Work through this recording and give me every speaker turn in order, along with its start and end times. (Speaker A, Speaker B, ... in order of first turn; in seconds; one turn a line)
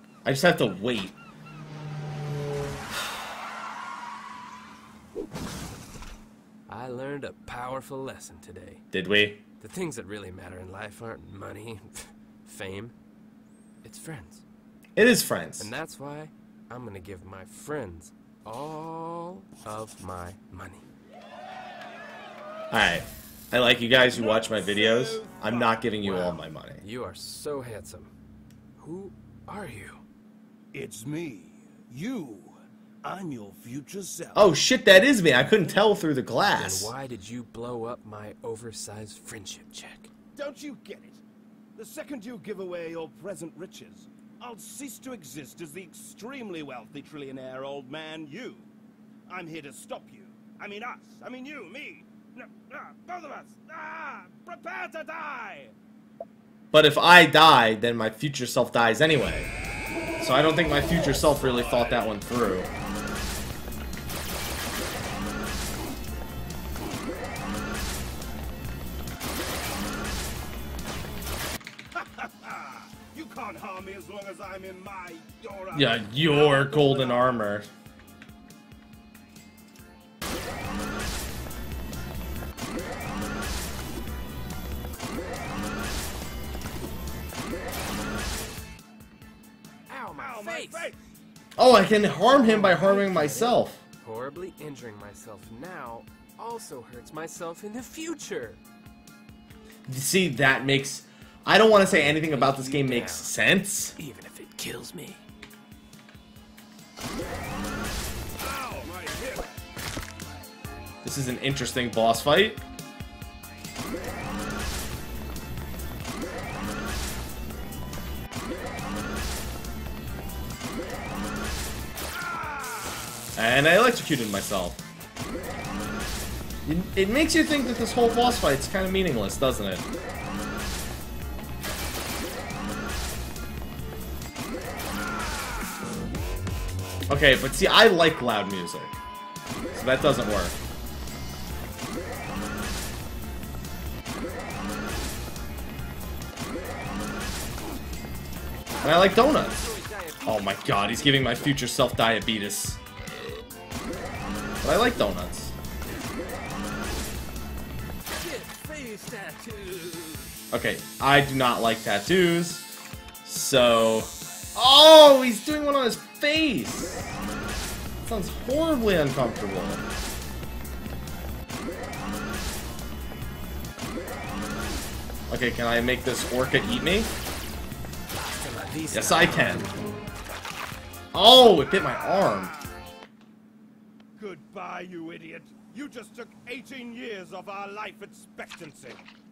Speaker A: 0.2-1.1
Speaker B: 6.7-8.8
Speaker A: 8.9-9.4
Speaker B: 9.6-12.9
Speaker B: 13.8-14.4
Speaker A: 14.9-15.7
Speaker B: 15.6-20.9
Speaker A: 22.7-26.8
Speaker C: 24.0-26.4
Speaker B: 26.1-28.1
Speaker B: 28.8-30.0
Speaker C: 30.7-34.6
Speaker A: 34.4-36.9
Speaker B: 36.5-40.1
Speaker C: 40.4-41.2
Speaker C: 41.8-48.7
Speaker C: 49.3-55.7
Speaker A: 56.7-59.5
Speaker A: 60.2-62.7
Speaker C: 61.6-62.1
Speaker C: 71.9-77.5
Speaker A: 75.7-77.7
Speaker B: 89.9-90.9
Speaker C: 90.1-91.0
Speaker A: 91.6-93.8
Speaker B: 92.2-98.6
Speaker A: 99.9-104.0
Speaker B: 102.1-103.3
Speaker B: 104.0-105.2
Speaker C: 108.4-109.5
Speaker A: 111.0-112.6
Speaker C: 122.1-123.0
Speaker A: 123.4-124.8
Speaker A: 126.7-129.8
Speaker A: 137.1-139.0
Speaker A: 139.7-140.6
Speaker B: 148.8-151.6
Speaker A: 148.8-149.7
Speaker A: 150.2-152.8
Speaker A: 154.6-155.5
Speaker B: 158.2-160.3
Speaker A: 160.5-162.7
Speaker A: 163.2-167.1
Speaker A: 168.0-169.8
Speaker A: 175.3-177.1
Speaker B: 178.2-179.8
Speaker A: 178.9-179.7
Speaker A: 181.1-182.5
Speaker C: 182.4-182.8
Speaker C: 184.2-189.0